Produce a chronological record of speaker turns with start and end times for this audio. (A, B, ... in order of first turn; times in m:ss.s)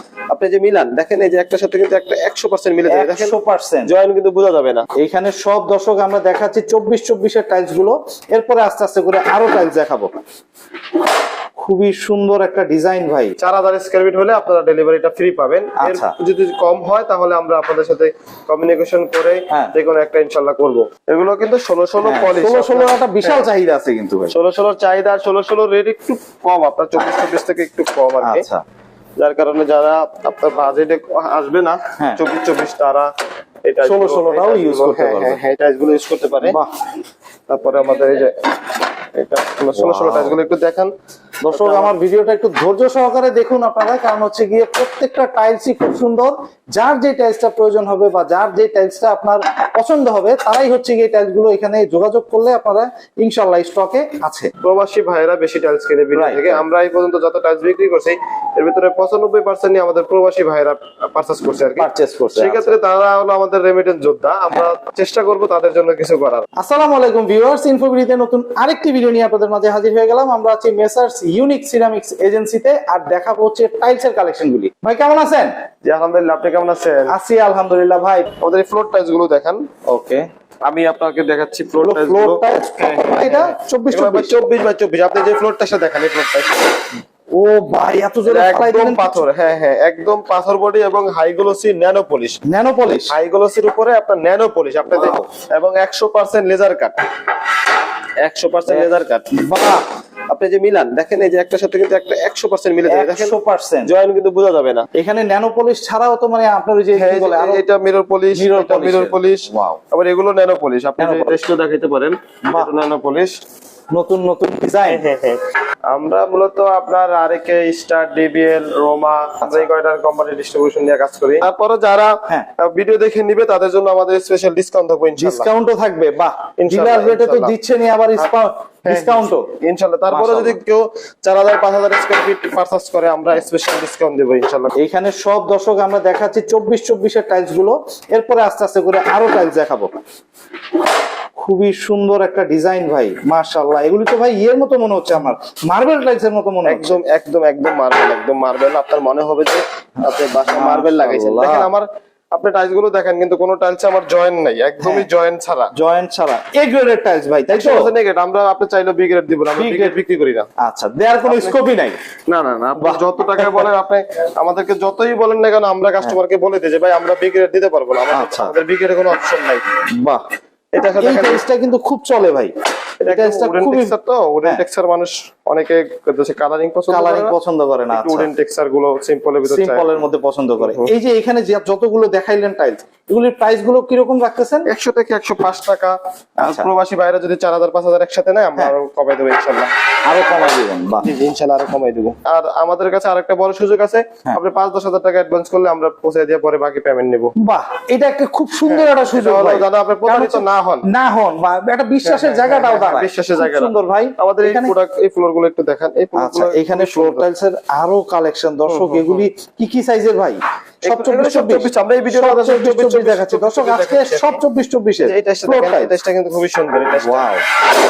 0:00.3-0:04.8 A
0:02.9-0:03.9 B
0:05.0-0:10.1 B
0:11.6-0:13.3 B
0:13.4-0:23.4 A
0:15.8-0:16.1 B
0:22.0-0:24.3 B
0:24.3-0:28.4 A
0:28.2-0:28.6 B
0:29.2-0:33.1 A
0:33.6-0:36.6 A
0:33.8-0:35.4 B
0:36.4-0:36.7 B
0:37.5-0:40.9 A
0:39.7-0:40.4 B
0:41.4-0:54.5 B
0:41.5-0:41.9 A
0:54.6-1:06.4 A
0:56.2-0:56.6 B
1:01.8-1:02.8 B
1:06.6-1:15.5 B
1:15.8-1:17.1 A
1:17.1-1:18.3 B
1:18.4-1:19.6 A
1:19.9-1:20.3 B
1:20.6-1:26.8 A
1:21.8-1:24.4 B
1:27.3-1:29.2 B
1:28.2-1:32.4 A
1:32.4-1:33.1 B
1:33.1-1:37.0 A
1:38.2-1:39.4 A
1:38.7-1:39.8 B
1:40.3-1:44.9 A
1:42.9-1:43.9 B
1:44.9-1:47.6 B
1:46.9-1:53.4 A
1:48.3-1:49.8 B
1:51.0-1:51.4 B
1:52.4-1:52.7 B
1:53.9-1:55.1 B
1:54.9-2:05.5 A
2:05.2-2:09.5 B
2:06.6-2:07.6 A
2:08.8-2:14.7 A
2:10.1-2:10.6 B
2:14.8-2:19.9 B
2:21.4-2:27.0 B
2:26.6-2:35.7 A
2:30.4-2:31.7 B
2:34.8-2:35.1 B
2:35.7-2:37.9 B
2:37.5-2:40.5 A
2:39.6-2:40.0 B
2:40.6-2:42.0 B
2:41.2-2:41.6 A
2:42.3-2:49.6 A
2:42.8-2:43.6 B
2:48.1-2:48.5 B
2:49.9-2:50.2 B
2:50.7-2:51.4 A
2:50.9-2:54.6 B
2:53.0-2:57.3 A
2:56.9-2:58.3 B
2:57.9-3:00.0 A
2:59.5-3:04.7 B
3:00.6-3:00.9 A
3:04.7-3:09.7 A
3:06.4-3:06.7 B
3:10.0-3:11.0 B
3:11.0-3:17.3 A
3:17.4-3:24.7 B
3:18.7-3:20.9 A
3:22.0-3:27.2 A
3:26.2-3:36.0 B
3:28.7-3:29.2 A
3:30.8-3:34.4 A
3:35.0-3:37.3 A
3:37.0-3:37.4 B